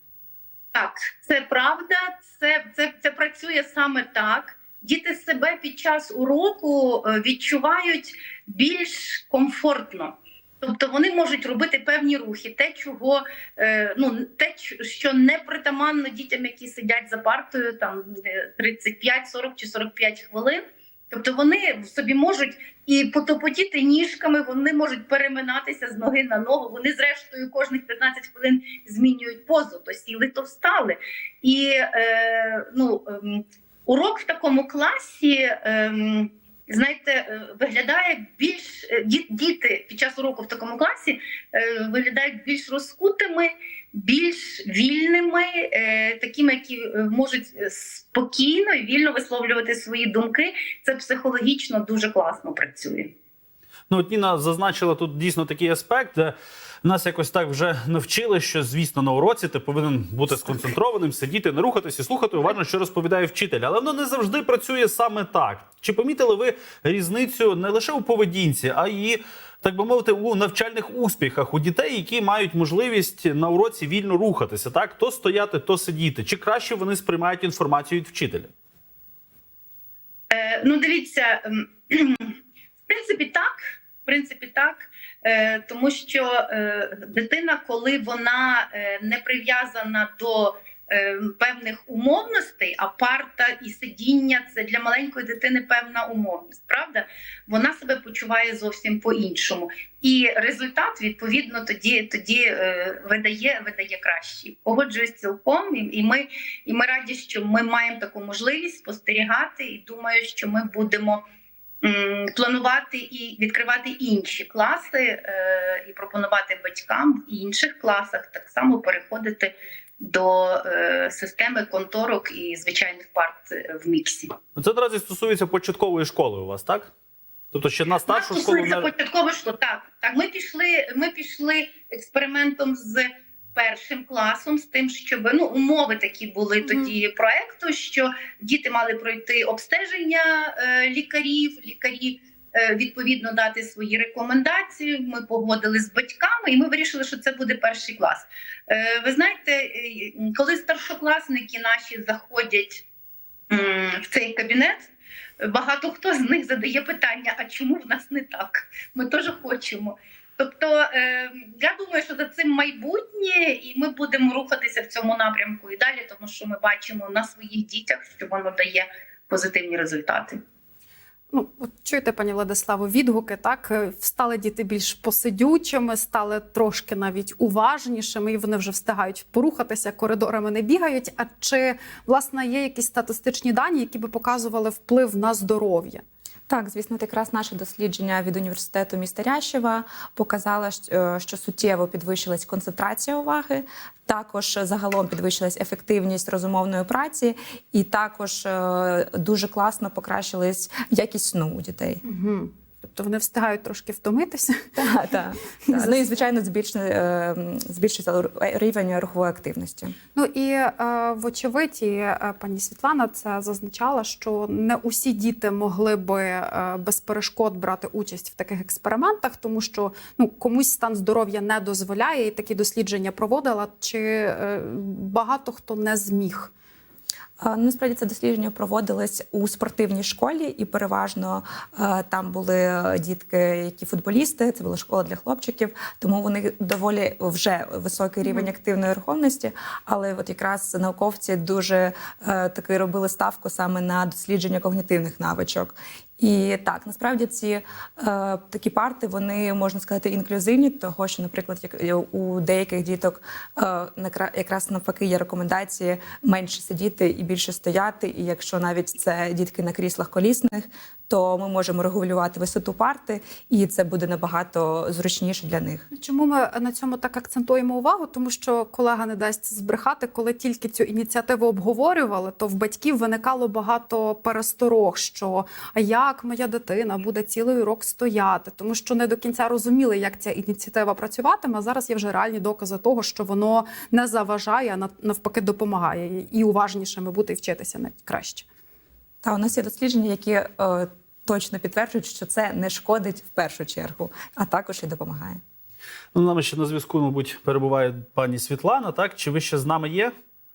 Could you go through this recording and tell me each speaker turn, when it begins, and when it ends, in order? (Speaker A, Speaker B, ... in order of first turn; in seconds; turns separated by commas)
Speaker A: 0.7-53.1, Speaker B: 53.9-78.5, Speaker A: 80.3-82.3, Speaker A: 82.9-111.2, Speaker A: 111.8-124.3, Speaker B: 124.5-126.9, Speaker B: 127.5-128.9, Speaker A: 128.1-152.8, Speaker A: 153.5-154.9, Speaker A: 155.4-170.4, Speaker C: 171.3-186.0, Speaker D: 186.5-202.0, Speaker C: 202.0-204.7, Speaker D: 204.8-209.9, Speaker C: 205.7-206.0, Speaker C: 210.1-226.5, Speaker D: 227.4-265.8, Speaker C: 265.9-288.4, Speaker D: 289.2-295.4, Speaker B: 296.1-300.1